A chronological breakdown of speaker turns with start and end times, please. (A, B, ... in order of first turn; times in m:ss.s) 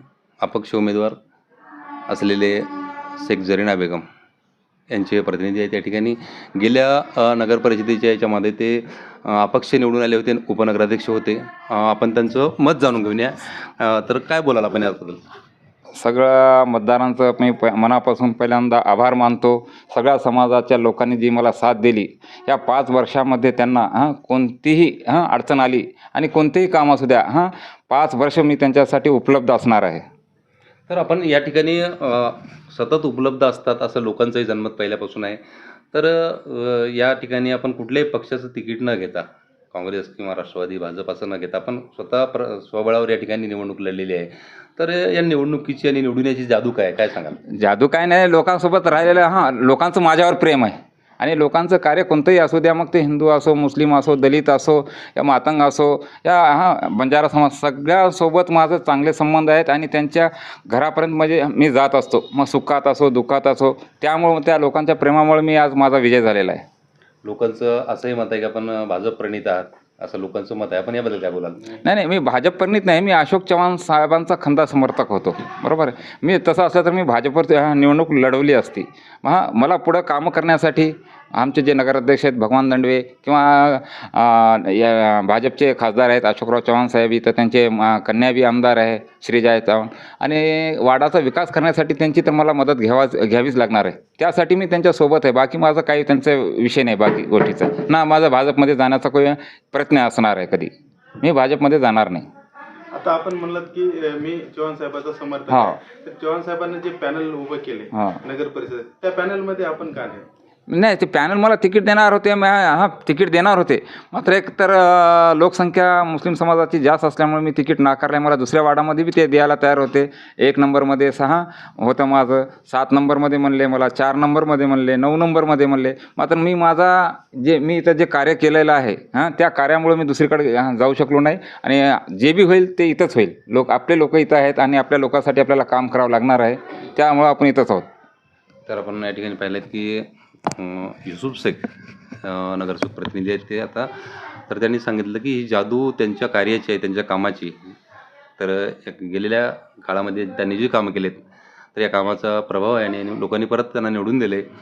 0:00.4-0:01.2 A
0:02.1-0:04.0 A
0:04.9-0:15.2 A
0:16.0-0:30.0 B
0:30.9-0:35.4 A
0:35.9-0:47.4 A
0:47.5-1:06.6 B
1:07.2-1:11.8 A
1:11.8-1:42.3 B
1:42.9-1:50.2 C
1:45.5-1:45.8 B
1:47.9-1:48.2 B
1:50.7-2:17.8 B
2:18.6-2:21.7 A
2:22.2-2:23.9 A
2:24.5-2:27.7 A
2:28.4-2:31.2 A
2:31.7-2:34.4 A